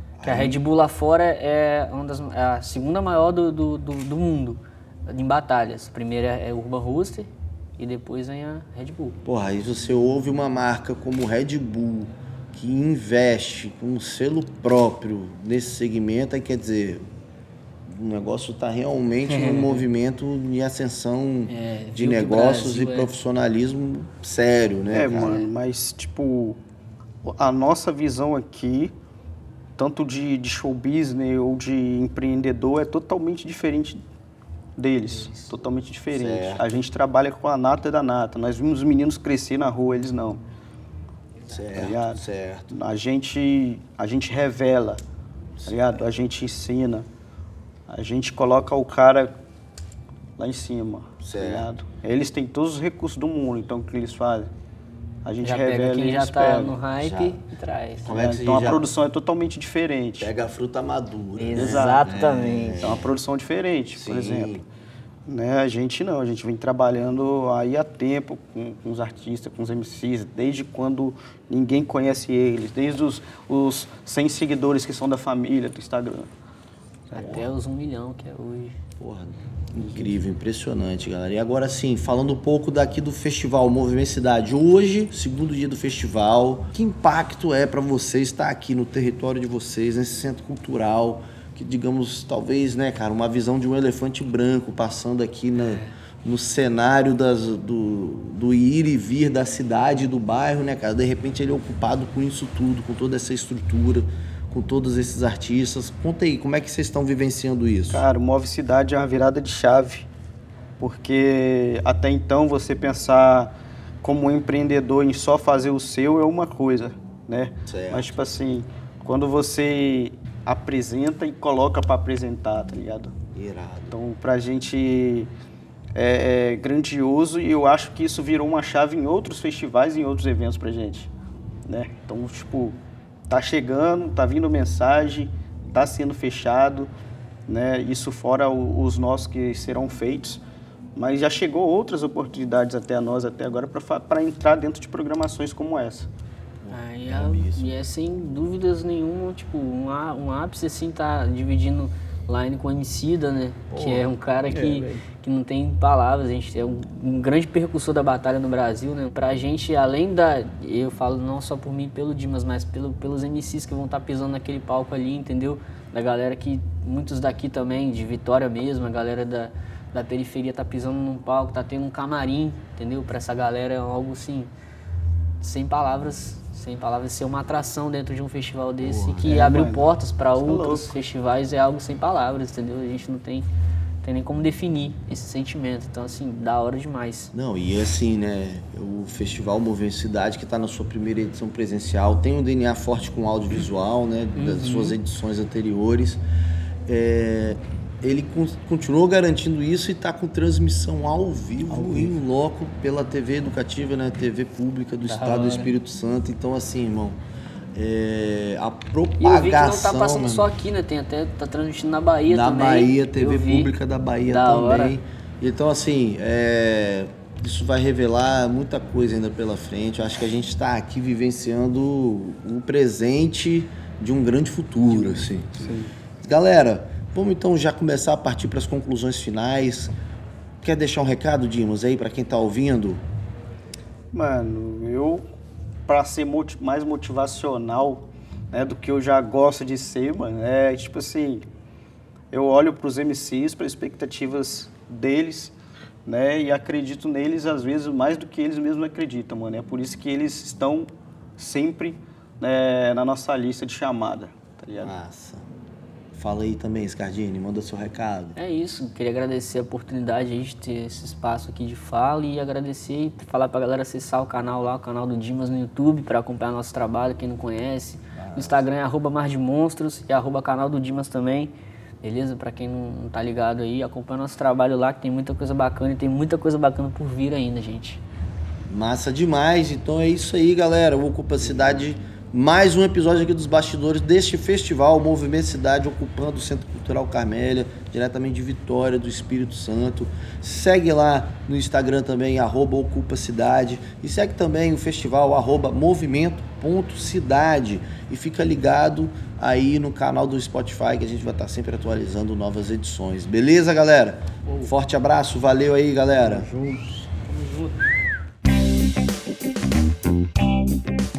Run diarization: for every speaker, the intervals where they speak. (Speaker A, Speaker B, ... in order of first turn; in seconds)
Speaker A: 0.2-0.6, 9.2-17.0, 17.9-25.4, 36.1-36.8, 41.5-42.7, 45.6-45.9, 51.2-51.7, 57.0-57.4, 58.0-58.9, 60.2-63.1, 63.9-64.6, 77.2-77.5, 79.0-108.0, 117.7-118.2, 123.3-124.0, 146.6-147.7, 153.7-154.8, 178.8-179.4, 187.3-196.2, 196.8-207.2, 207.7-210.5, 212.2-225.6, 226.2-229.9, 230.6-233.0, 254.8-255.5, 256.1-258.4, 268.1-268.6, 278.7-306.5
Speaker B: 0.2-9.2, 19.3-19.9, 21.5-23.1, 35.2-35.4, 55.4-58.1, 61.4-63.0, 77.1-78.7, 95.5-95.9, 146.7-174.5, 175.4-183.5, 184.0-187.3, 194.3-195.0, 205.1-205.7, 209.2-213.7, 214.2-214.9, 258.4-278.0
Speaker C: 24.9-26.6, 27.2-28.9, 29.8-34.0, 34.8-40.4, 41.5-45.0, 45.6-47.1, 47.9-49.3, 50.4-54.5, 55.2-56.8, 58.0-60.3, 61.5-62.1, 62.8-64.6, 65.3-76.3, 77.1-77.4, 107.9-110.1, 110.8-123.1, 123.9-125.3, 126.0-131.1, 131.7-132.8, 133.3-136.9, 137.5-140.4, 140.9-146.1, 154.6-155.0, 179.2-180.9, 201.7-202.1, 225.5-225.9, 234.1-235.2, 235.9-241.4, 242.3-254.9, 304.5-304.7, 306.2-307.7